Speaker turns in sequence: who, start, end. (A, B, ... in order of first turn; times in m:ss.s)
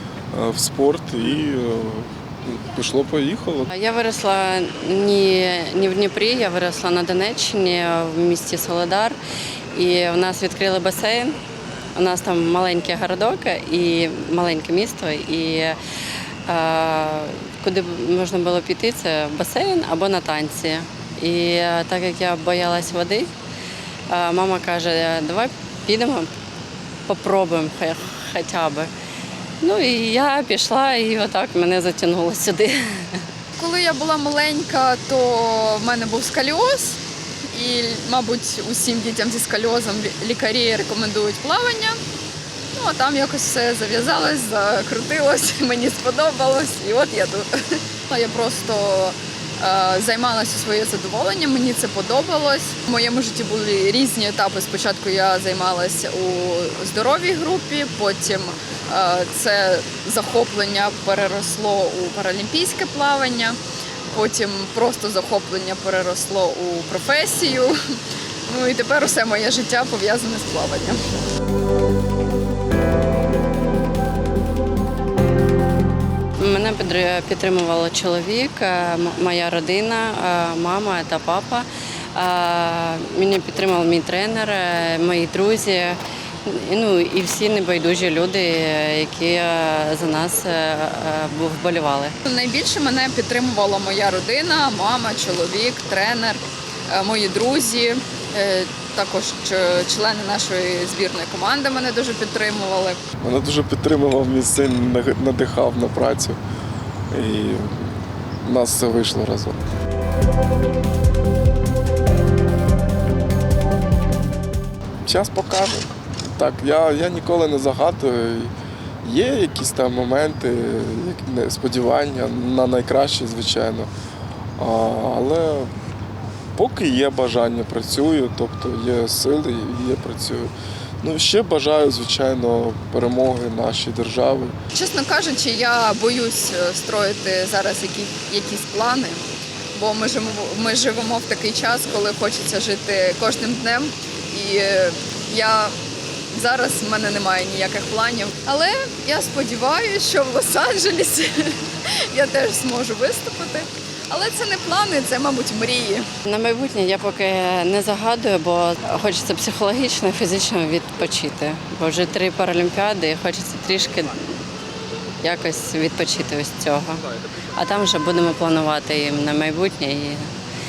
0:00.3-0:03.7 A
0:03.7-0:09.2 B
0:09.7-0:11.4 B
0:11.9-0:15.8 B
0:16.5-0:23.3 B
0:24.1-0:26.3 B
0:27.1-0:28.9 B
0:29.6-0:33.2 B
0:33.6-0:37.0 C
0:37.5-0:42.0 C
0:42.8-1:03.6 C
1:04.1-1:07.8 C
1:08.5-1:11.0 C
1:16.4-1:32.2 B
1:32.2-1:43.0 C
1:43.2-1:46.4 A
1:47.1-1:49.6 A
1:55.0-1:58.5 A
1:59.0-2:03.9 A
2:04.6-2:05.7 A
2:06.6-2:14.5 A
2:14.7-2:19.2 C
2:19.7-2:25.8 C
2:26.3-2:36.1 C
2:36.2-2:44.3 B
2:45.2-2:50.3 B